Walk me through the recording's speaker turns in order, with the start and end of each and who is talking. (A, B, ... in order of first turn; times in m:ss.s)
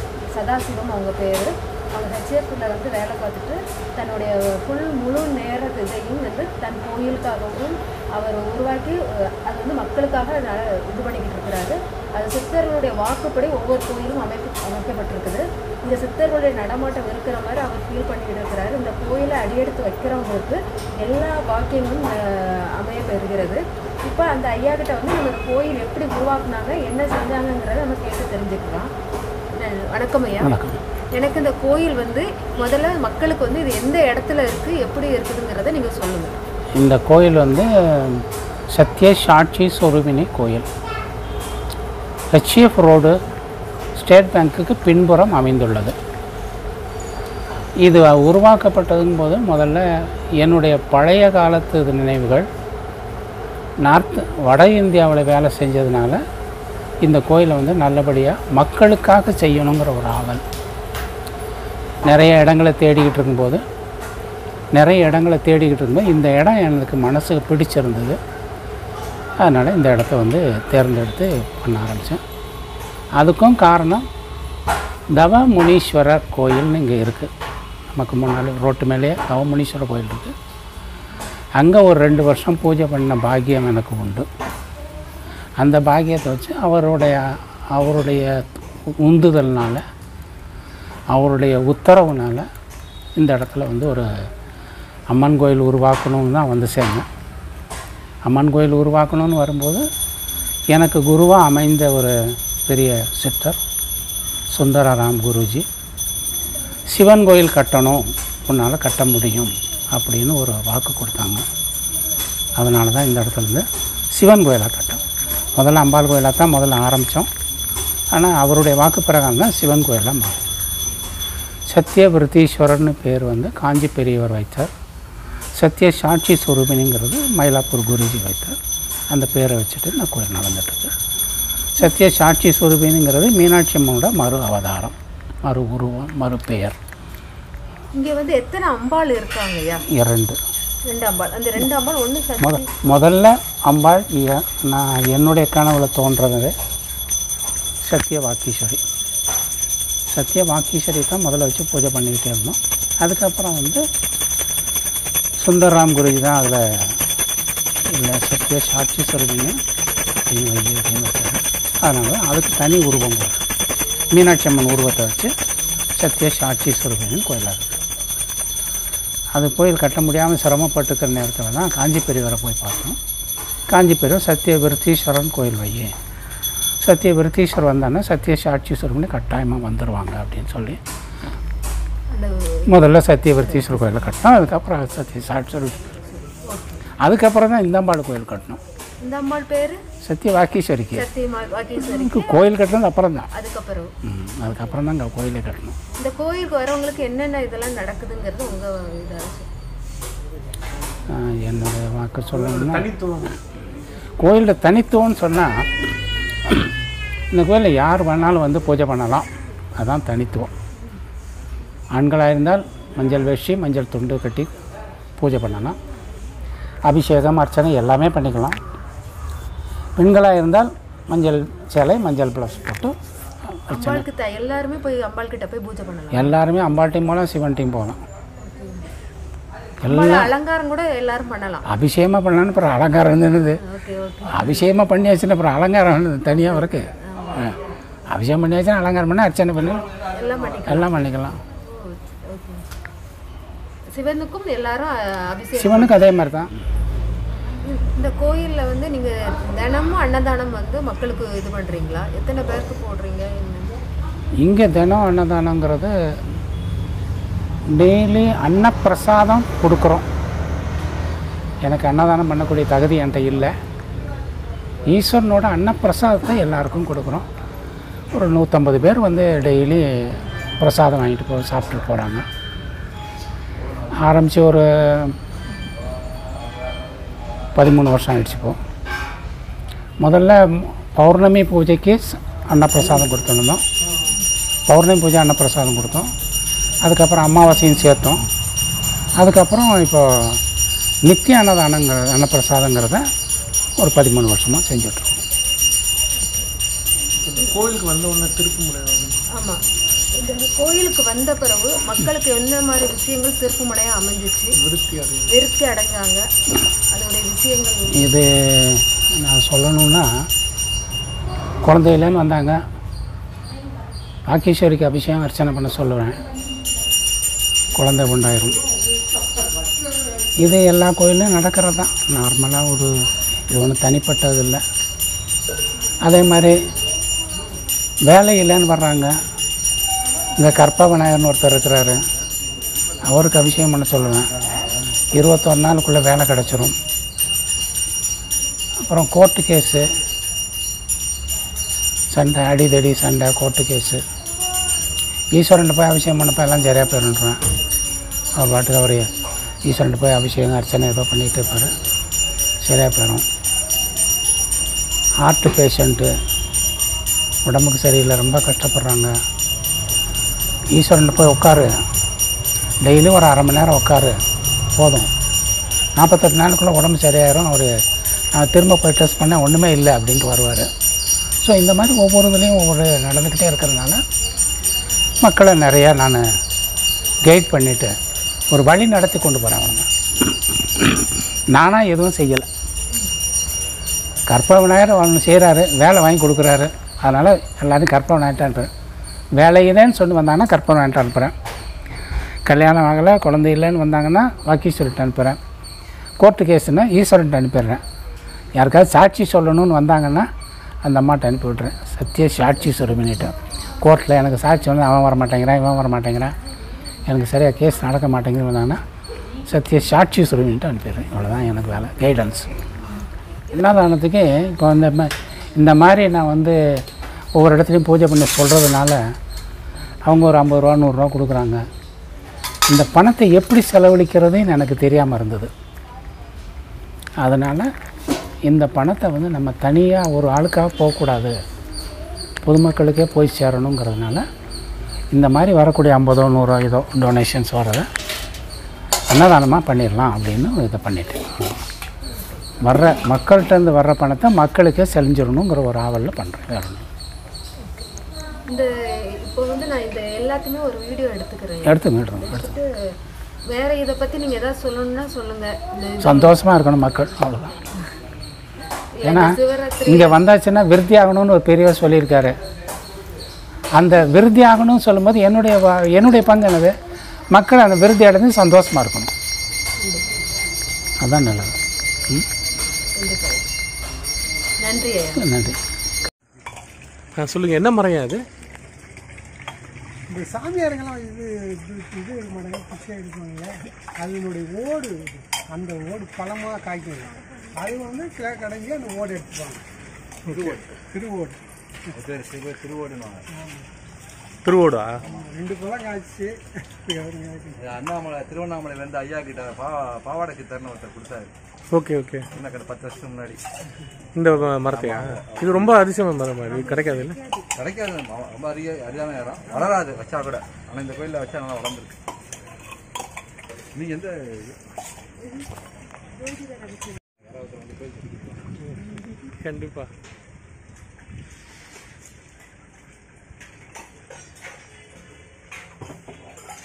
0:00.3-0:28.9 A
0:29.5-0:30.5 A
0:30.4-0:30.8 B
0:31.2-0:36.4 A
0:36.8-0:40.7 B
0:42.3-0:43.2 B
0:44.0-0:46.0 B
0:47.8-0:52.5 B
0:53.8-0:56.2 B
0:57.0-1:00.4 B
1:02.1-1:03.6 B
1:04.8-1:08.2 B
1:09.4-1:12.2 B
1:13.2-1:14.0 B
1:15.2-1:17.3 B
1:17.9-1:20.3 B
1:21.6-1:24.3 B
1:25.6-1:29.8 B
1:31.1-1:32.5 B
1:33.2-1:34.1 B
1:35.1-1:37.1 B
1:38.3-1:39.8 B
1:40.7-1:43.6 B
1:44.5-1:45.7 B
1:46.9-1:51.4 B
1:52.6-1:55.0 B
1:55.6-1:57.3 B
1:58.1-2:00.4 B
2:01.7-2:04.7 B
2:05.6-2:08.6 B
2:09.1-2:10.9 B
2:11.8-2:16.8 B
2:18.0-2:19.8 A
2:19.9-2:20.4 B
2:20.9-2:22.7 A
2:22.4-2:26.5 B
2:27.8-2:28.8 B
2:30.1-2:33.8 B
2:35.4-2:37.0 B
2:37.8-2:39.6 B
2:40.2-2:43.5 B
2:44.1-2:45.3 B
2:46.0-2:47.7 B
2:49.3-2:53.0 B
2:53.7-2:55.9 B
2:56.8-3:00.8 B
3:02.1-3:02.8 A
3:02.7-3:05.9 B
3:03.5-3:03.8 A
3:06.2-3:06.8 A
3:07.0-3:08.6 B
3:09.0-3:09.8 A
3:10.0-3:11.0 B
3:10.9-3:12.4 A
3:11.8-3:13.3 B
3:13.3-3:13.9 A
3:14.0-3:15.8 B
3:16.0-3:19.5 A
3:21.1-3:22.9 B
3:22.5-3:23.4 C
3:24.2-3:25.7 B
3:27.3-3:30.5 B
3:31.9-3:34.5 B
3:35.2-3:35.8 B
3:36.9-3:38.6 B
3:40.0-3:43.0 B
3:43.5-3:44.0 B
3:43.7-3:46.3 A
3:46.1-3:48.0 B
3:48.4-3:48.8 A
3:49.8-3:50.3 B
3:49.8-3:51.6 A
3:51.7-3:53.6 B
3:53.6-3:54.6 A
3:54.3-3:57.6 B
3:57.0-3:57.5 A
3:58.1-4:00.0 B
4:00.0-4:00.9 A
4:00.6-4:01.4 B
4:01.5-4:02.7 A
4:03.9-4:06.1 A
4:05.6-4:06.5 B
4:07.6-4:13.8 A
4:14.4-4:16.0 B
4:17.7-4:20.0 B
4:21.6-4:23.6 B
4:24.8-4:27.3 B
4:28.1-4:32.2 B
4:33.9-4:35.2 B
4:37.6-4:38.6 B
4:40.0-4:43.6 B
4:44.7-4:46.1 B
4:46.8-4:48.2 B
4:49.2-4:50.4 B
4:51.0-4:53.0 B
4:53.8-4:55.2 B
4:57.3-4:59.2 C
4:59.3-5:04.6 A
5:04.6-5:05.3 C
5:05.3-5:08.0 A
5:07.9-5:10.1 B
5:11.6-5:12.6 B
5:14.3-5:16.2 B
5:17.7-5:18.6 B
5:20.4-5:22.9 B
5:23.5-5:24.6 B
5:26.0-5:26.6 B
5:28.1-5:29.1 B
5:30.4-5:32.0 B
5:33.0-5:34.4 B
5:35.1-5:36.8 B
5:38.8-5:39.9 B
5:42.1-5:44.0 B
5:45.3-5:47.4 B
5:48.4-5:49.1 B
5:49.6-5:51.7 B
5:52.6-5:53.3 B
5:55.2-5:56.1 B
5:57.4-5:59.1 B
6:00.7-6:01.8 B
6:02.8-6:04.2 B
6:04.8-6:05.1 B
6:06.0-6:07.7 B
6:08.3-6:10.7 B
6:11.4-6:14.0 B
6:15.2-6:16.2 B
6:17.3-6:17.9 B
6:18.5-6:22.5 B
6:24.3-6:28.7 B
6:29.4-6:31.4 B
6:32.5-6:35.4 B
6:36.2-6:37.8 B
6:38.6-6:40.3 B
6:40.8-6:46.3 B
6:47.1-6:48.8 B
6:49.5-6:52.5 B
6:53.5-6:56.8 B
6:57.4-6:59.0 B
7:00.1-7:01.6 B
7:02.7-7:05.5 B
7:07.2-7:07.7 B
7:08.5-7:11.4 B
7:12.4-7:14.2 B
7:15.1-7:17.9 B
7:19.1-7:21.6 B
7:22.6-7:26.9 B
7:28.5-7:32.7 A
7:31.6-7:32.5 B
7:33.5-7:36.4 A
7:36.0-7:37.6 B
7:39.0-7:40.2 A
7:39.0-7:42.4 B
7:43.8-7:46.7 B
7:47.3-7:49.1 B
7:51.0-7:51.6 B
7:53.0-7:53.5 A
7:54.6-7:55.2 A
7:55.2-7:55.6 B
7:57.2-7:58.2 C
8:00.1-8:09.6 D
8:10.3-8:11.4 D
8:12.0-8:13.2 E
8:13.3-8:13.7 D
8:14.4-8:15.0 C
8:15.1-8:17.7 D
8:17.7-8:21.3 E
8:21.7-8:22.3 C
8:22.3-8:23.4 E
8:24.2-8:27.2 C
8:27.5-8:32.0 E
8:33.8-8:34.5 E
8:37.2-8:38.3 E
8:39.3-8:39.9 C